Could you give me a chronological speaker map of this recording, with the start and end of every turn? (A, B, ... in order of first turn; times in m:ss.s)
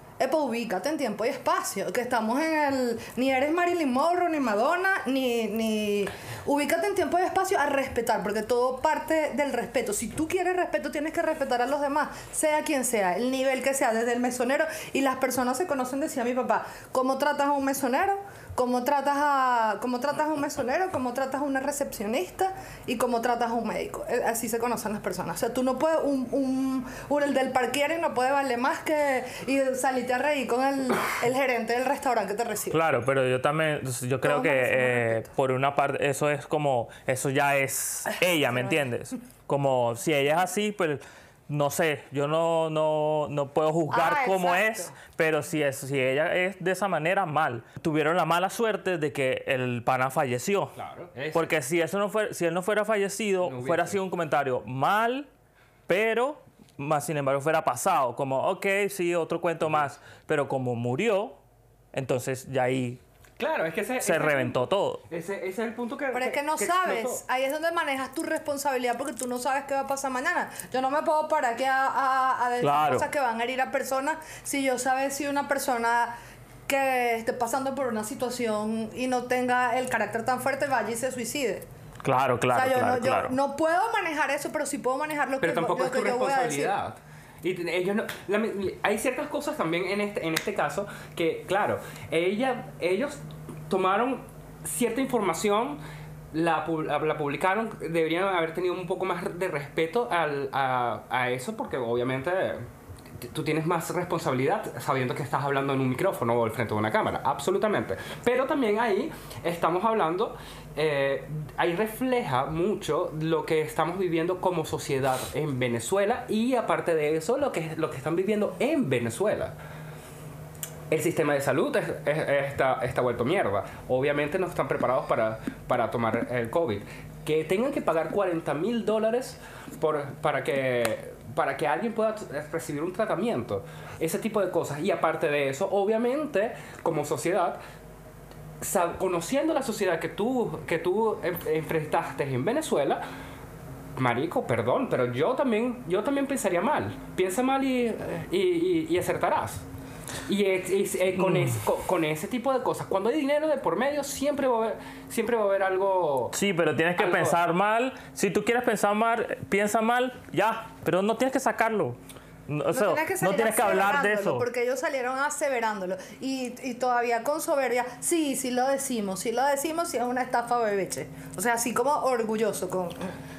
0:00.2-0:32.8 A
0:32.7-0:50.8 B
0:34.2-0:35.3 A
0:38.3-0:38.6 A
0:43.9-0:44.9 A
0:50.7-0:51.5 C
0:51.3-0:55.3 B
0:53.4-0:54.0 C
0:55.9-1:01.4 B
1:01.9-1:03.0 B
1:03.4-1:07.2 C
1:04.0-1:05.0 B
1:06.1-1:16.1 A
1:12.6-1:13.1 B
1:16.7-1:21.6 A
1:22.0-1:23.4 B
1:22.5-1:26.7 A
1:25.4-1:35.8 C
1:36.3-1:42.6 C
1:43.2-1:59.5 C
2:00.9-2:17.6 C
2:18.6-2:23.0 C
2:24.0-2:29.6 C
2:30.3-2:36.3 C
2:31.2-2:31.6 B
2:36.3-2:44.4 B
2:37.0-2:37.4 C
2:42.7-2:53.2 A